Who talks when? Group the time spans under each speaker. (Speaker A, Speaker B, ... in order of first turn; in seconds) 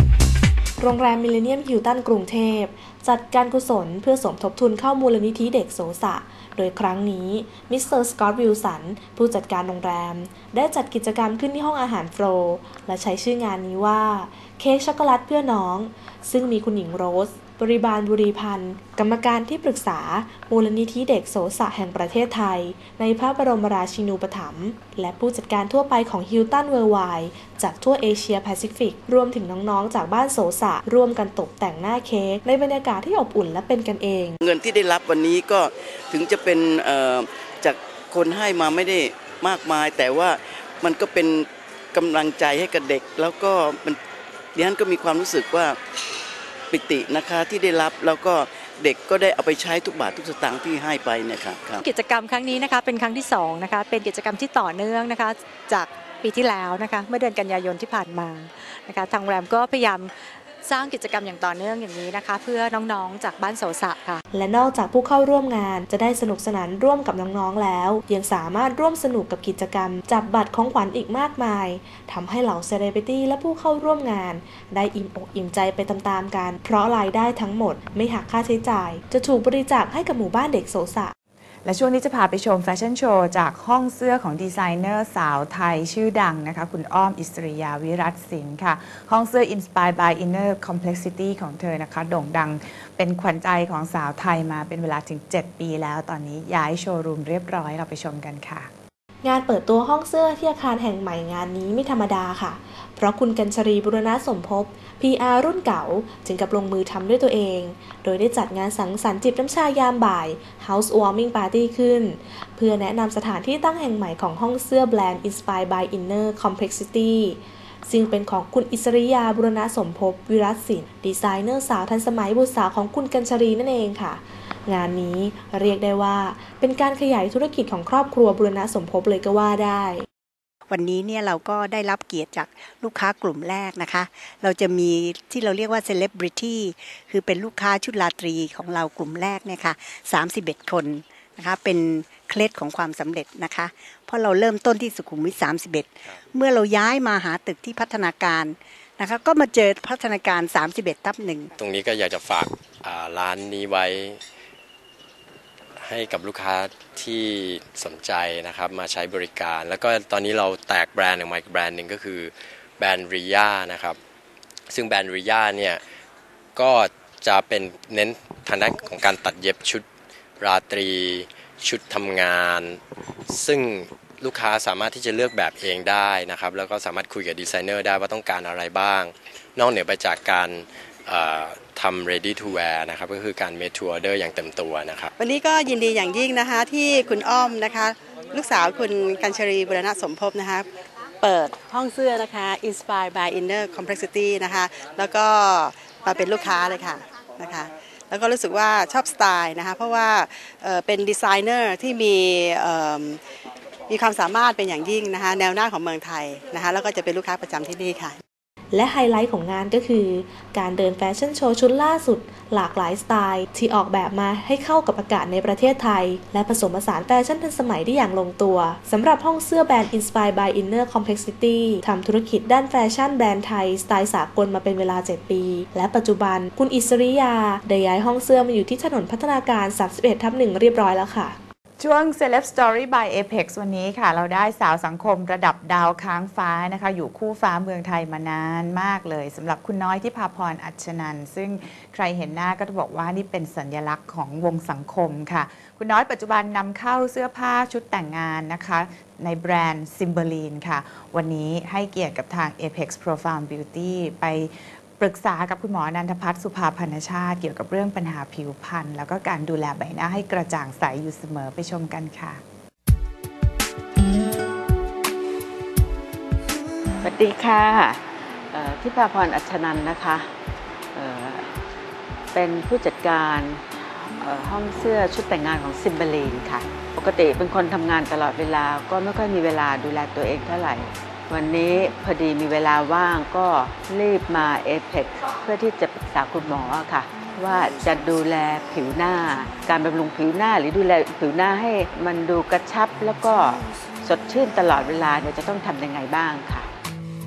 Speaker A: 0.8-34.4, 64.3-81.1, 99.2-130.1, 208.7-231.4
Speaker B: 34.4-44.0, 44.5-45.8, 46.7-51.8
Speaker C: 51.8-64.2
Speaker D: 81.6-98.7, 231.8-262.4
Speaker E: 130.7-151.5
Speaker F: 151.6-154.2, 155.8-164.0, 164.7-165.8, 166.6-169.8, 170.4-185.1
Speaker G: 185.2-190.7, 191.2-203.2, 203.9-208.2
Speaker H: 267.0-270.3, 270.9-271.5, 272.3-296.7